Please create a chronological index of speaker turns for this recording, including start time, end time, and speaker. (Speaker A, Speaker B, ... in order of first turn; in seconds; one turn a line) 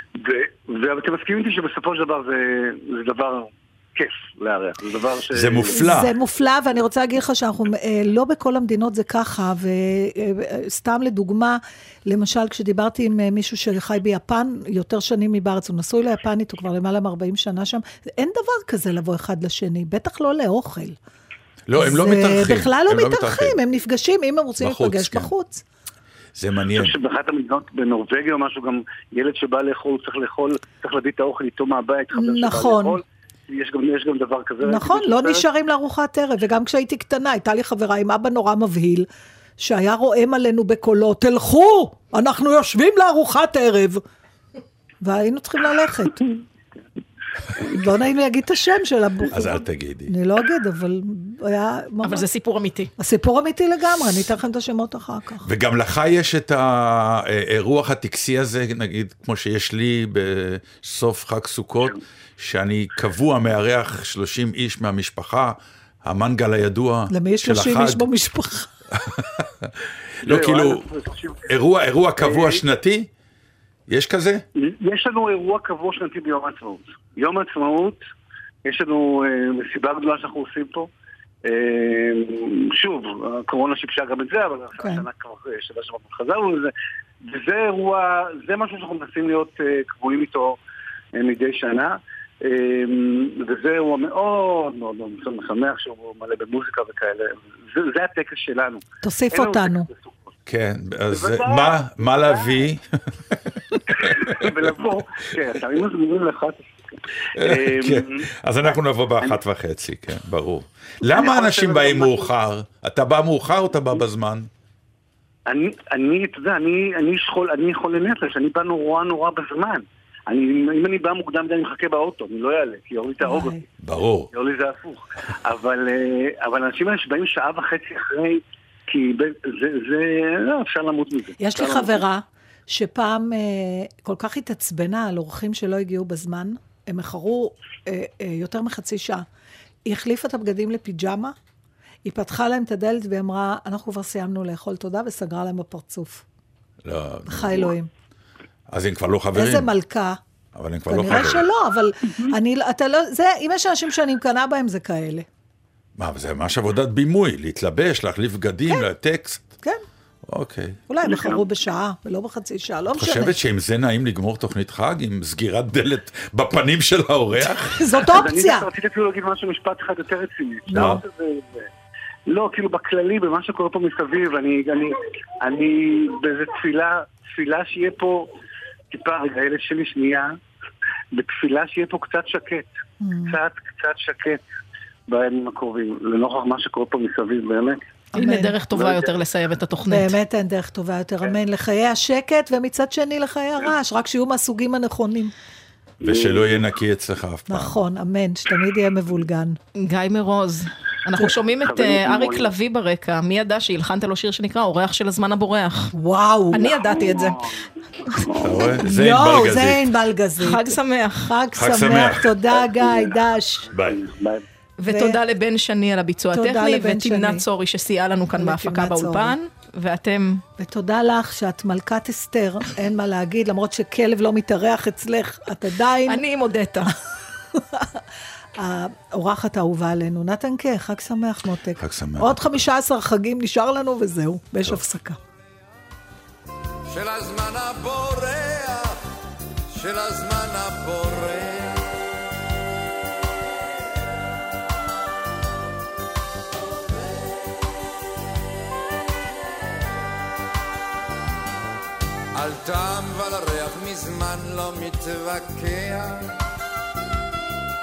Speaker A: 0.2-6.0
Speaker B: 5.3-6.1
Speaker C: 5.7-21.0
Speaker B: 21.7-23.5
Speaker C: 21.8-25.6
Speaker B: 24.6-25.3
Speaker B: 26.4-26.9
Speaker A: 26.7-35.4
Speaker C: 32.1-33.0
Speaker C: 34.6-44.0
Speaker C: 45.0-46.2
Speaker C: 47.6-52.3
Speaker B: 49.3-50.1
Speaker D: 52.0-52.9
Speaker C: 53.0-55.5
Speaker B: 55.4-68.0
Speaker C: 67.1-68.7
Speaker B: 69.0-69.7
Speaker B: 70.2-70.8
Speaker A: 70.2-71.5
Speaker B: 71.5-73.1
Speaker A: 72.2-72.6
Speaker B: 73.9-74.4
Speaker A: 74.6-78.0
Speaker A: 78.6-80.9
Speaker A: 81.4-86.7
Speaker C: 84.8-85.0
Speaker A: 87.2-90.6
Speaker A: 91.1-100.3
Speaker C: 99.0-99.9
Speaker B: 100.5-103.4
Speaker A: 101.1-102.6
Speaker A: 104.0-108.2
Speaker B: 104.1-104.4
Speaker B: 107.3-114.5
Speaker A: 111.0-112.3
Speaker A: 115.5-123.6
Speaker C: 123.2-123.6
Speaker B: 123.8-124.3
Speaker A: 124.3-132.0
Speaker C: 131.4-139.2
Speaker C: 139.8-141.3
Speaker C: 142.0-146.2
Speaker B: 146.8-147.7
Speaker C: 147.3-147.9
Speaker B: 148.7-149.7
Speaker C: 149.3-150.2
Speaker B: 150.5-151.5
Speaker C: 150.9-155.3
Speaker B: 156.0-159.5
Speaker B: 160.3-160.8
Speaker C: 160.9-163.3
Speaker A: 161.0-161.4
Speaker B: 163.0-167.8
Speaker C: 167.7-168.7
Speaker A: 168.0-171.7
Speaker C: 170.7-171.0
Speaker B: 170.7-171.0
Speaker A: 172.3-178.3
Speaker A: 178.9-180.3
Speaker A: 181.1-182.7
Speaker C: 183.0-183.4
Speaker A: 183.3-184.4
Speaker A: 185.1-187.8
Speaker C: 188.1-188.6
Speaker D: 188.1-190.1
Speaker A: 188.7-189.1
Speaker C: 189.9-195.3
Speaker B: 196.0-197.8
Speaker A: 196.0-196.6
Speaker C: 197.5-199.6
Speaker D: 199.8-205.9
Speaker A: 201.2-202.5
Speaker C: 205.9-206.8
Speaker D: 206.5-207.4
Speaker A: 206.7-207.5
Speaker A: 208.1-208.8
Speaker B: 208.4-209.8
Speaker C: 208.8-213.7
Speaker D: 210.4-211.3
Speaker B: 211.6-212.3
Speaker A: 212.6-213.1
Speaker B: 213.7-214.0
Speaker A: 213.8-214.4
Speaker D: 214.8-220.4
Speaker C: 214.8-215.2
Speaker C: 216.3-217.4
Speaker C: 218.4-219.3
Speaker C: 220.6-226.2
Speaker D: 226.1-226.9
Speaker C: 227.5-228.0
Speaker C: 228.6-235.2
Speaker B: 231.8-232.5
Speaker E: 236.9-239.0
Speaker E: 239.7-241.9
Speaker E: 252.3-256.4